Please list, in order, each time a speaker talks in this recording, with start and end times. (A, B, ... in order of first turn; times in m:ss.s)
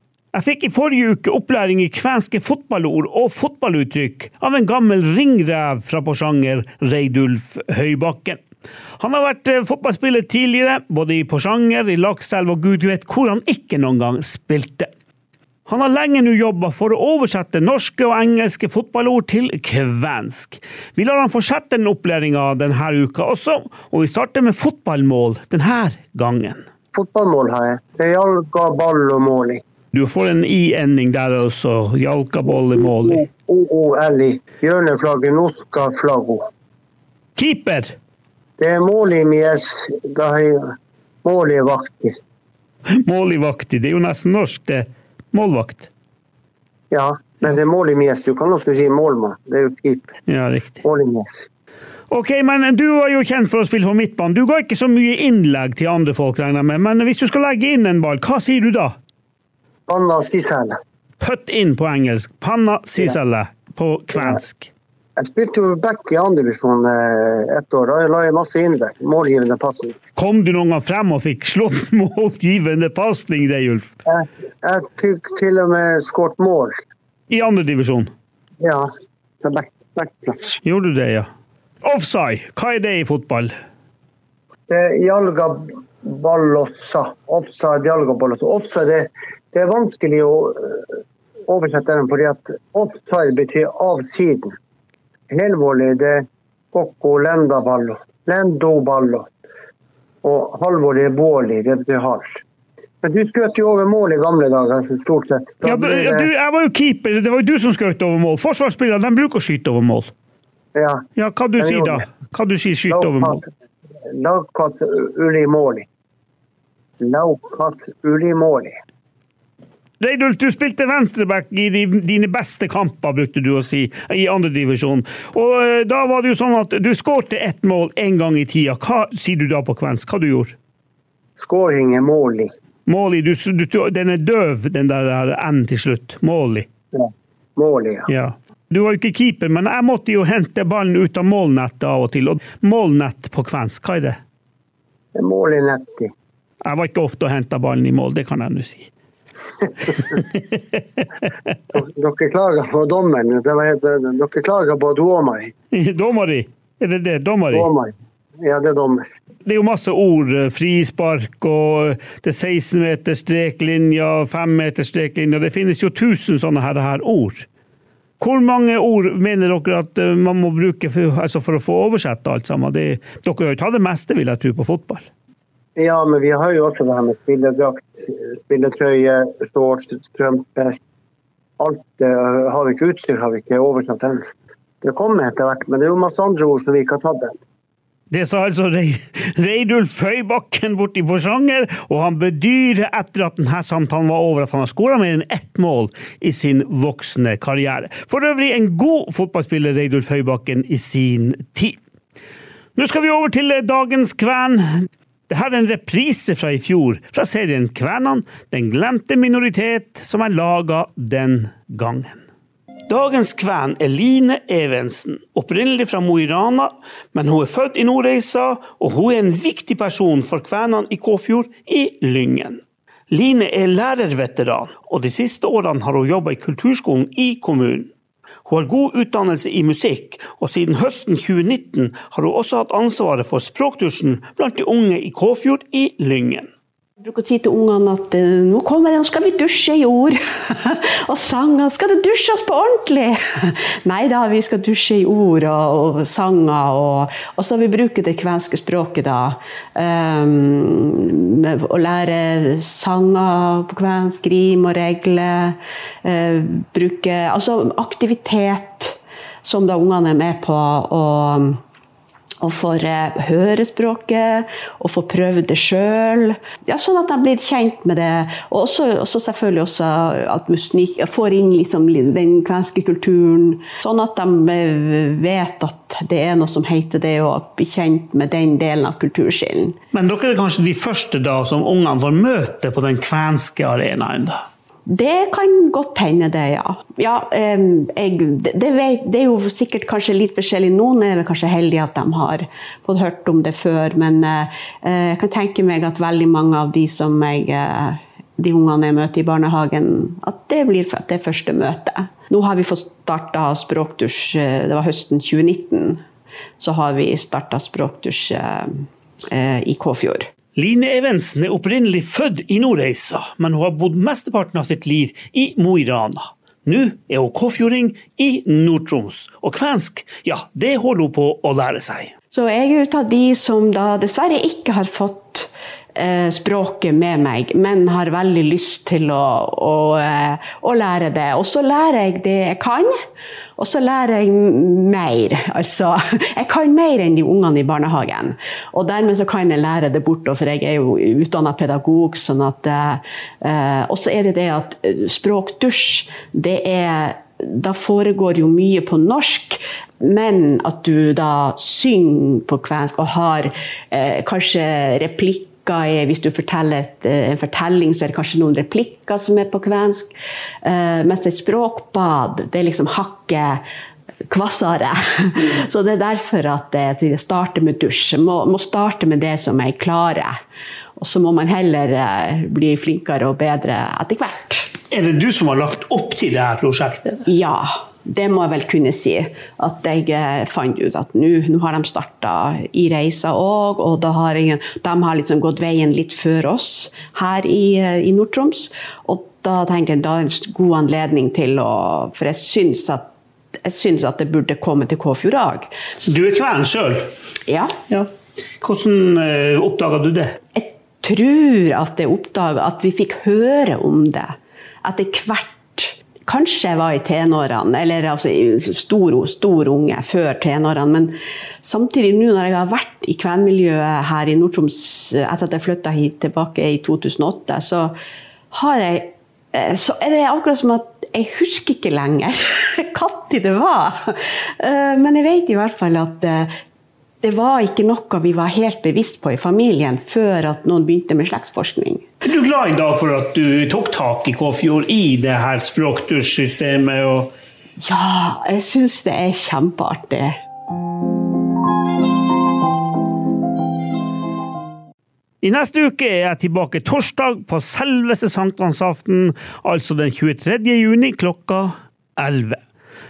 0:00.3-0:08.4 A
0:09.0-0:14.9 A
0:15.7-0:26.6 A
0:26.9-0:29.6 B
0:29.9-0:33.2 A
0:32.8-0:36.5 B
0:37.4-0:37.9 A
0:38.6-0:42.2 B
0:43.0-0:45.9 A
0:46.9-0:50.1 B
0:50.3-0:50.8 A
0:50.8-0:51.3 B
0:52.1-0:59.0 A
0:59.9-1:00.8 B
1:01.2-1:04.7 A
1:05.2-1:09.9 B
1:10.2-1:13.9 A
1:14.1-1:16.8 B
1:17.3-1:18.1 A
1:18.6-1:18.9 B
1:19.4-1:20.5 B
1:20.6-1:21.3 A
1:21.8-1:23.5 A
1:24.7-1:30.8 B
1:31.5-1:34.5 B
1:35.3-1:39.3 B
1:40.2-1:42.4 B
1:43.0-1:46.3 B
1:45.6-1:50.1 A
1:50.7-1:51.0 B
1:51.2-1:53.4 A
1:51.6-1:52.0 B
1:52.9-1:53.5 B
1:54.1-1:55.8 B
1:57.0-1:58.8 B
2:00.0-2:10.5 A
2:11.4-2:12.5 B
2:12.8-2:16.7 A
2:16.9-2:18.1 B
2:18.1-2:24.2 A
2:25.1-2:26.1 B
2:26.6-2:28.9 A
2:31.7-2:35.5 B
2:35.7-2:37.7 A
2:37.5-2:39.0 B
2:39.4-2:47.5 A
2:48.2-2:55.1 A
2:55.8-3:00.8 B
3:01.6-3:04.2 B
3:04.8-3:07.3 B
3:08.1-3:21.8 A
3:22.8-3:32.2 A
3:32.9-3:47.9 A
3:48.4-3:56.5 A
3:57.0-4:21.6 C
4:22.4-4:39.8 C
4:39.9-4:44.4 A
4:44.8-5:06.0 C
5:06.6-5:10.3 C
5:10.6-5:22.1 A
5:22.3-5:32.9 C
5:33.6-6:00.1 C
6:00.6-6:03.6 C
6:04.3-6:10.4 C
6:11.0-6:14.7 C
6:14.9-6:17.2 A
6:17.3-6:35.7 C
6:36.0-6:37.1 A
6:38.6-6:40.4 A
6:40.5-6:57.9 C
6:58.5-7:06.5 C
7:07.2-7:12.0 C
7:12.2-7:17.3 A
7:17.8-7:20.4 C
7:25.4-7:32.6 A